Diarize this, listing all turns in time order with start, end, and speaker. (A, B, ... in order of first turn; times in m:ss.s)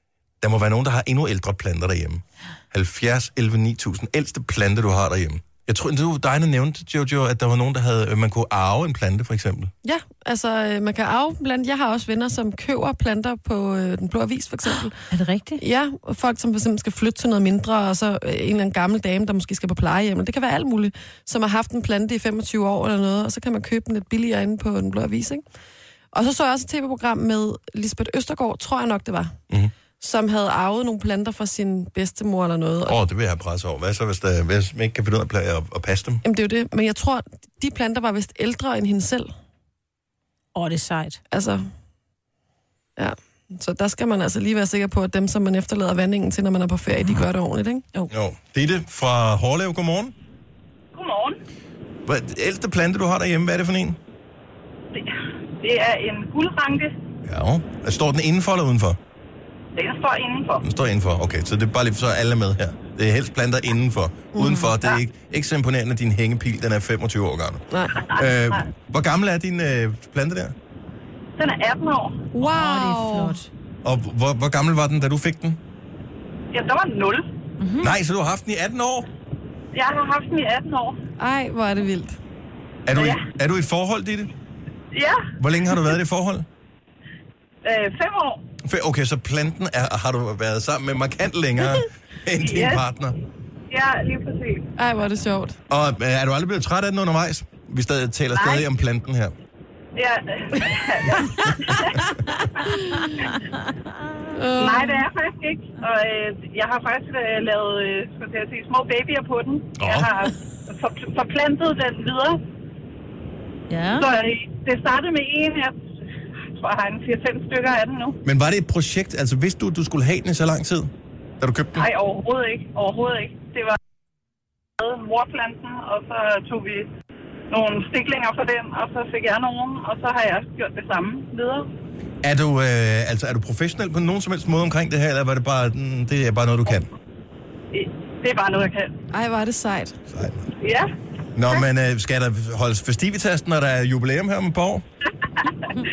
0:00.4-0:09.7 A
0:09.8-0:15.0 B
0:15.1-0:15.6 C
0:15.6-0:25.4 B
0:26.1-0:29.4 B
0:30.0-0:33.0 B
0:32.9-0:36.2 A
0:36.2-0:39.3 B
0:40.6-0:41.2 C
0:41.3-0:41.7 B
0:43.0-0:47.8 B
0:48.1-0:50.1 A
0:50.9-0:51.4 D
0:52.0-0:54.0 A
0:55.0-0:57.0 D
0:57.2-0:59.0 A
0:59.8-1:00.6 D
1:00.6-1:10.6 A
1:04.4-1:04.7 B
1:07.7-1:08.1 B
1:08.2-1:08.6 D
1:11.4-1:12.3 D
1:12.4-1:13.4 B
1:12.4-1:13.5 C
1:13.8-1:15.6 A
1:16.5-1:17.3 D
1:17.6-1:17.9 C
1:17.8-1:19.1 A
1:19.7-1:21.0 D
1:21.2-1:22.2 B
1:22.9-1:24.3 A
1:23.0-1:23.3 D
1:24.9-1:25.3 D
1:25.4-1:26.5 A
1:27.6-1:28.4 D
1:28.6-1:33.2 A
1:32.4-1:32.8 D
1:33.7-1:34.7 D
1:34.8-1:35.6 B
1:35.7-1:39.3 A
1:38.3-1:38.6 D
1:40.0-1:42.1 D
1:44.3-1:45.0 B
1:44.6-1:52.4 D
1:49.8-1:50.1 A
1:53.7-1:54.1 C
1:53.9-1:55.8 D
1:56.6-1:58.2 D
1:58.2-2:01.8 A
2:01.8-2:03.8 D
2:04.8-2:06.9 D
2:07.5-2:11.7 D
2:12.2-2:16.9 A
2:17.7-2:18.9 D
2:19.1-2:20.0 B
2:20.1-2:20.5 A
2:20.6-2:20.9 D
2:21.4-2:24.8 A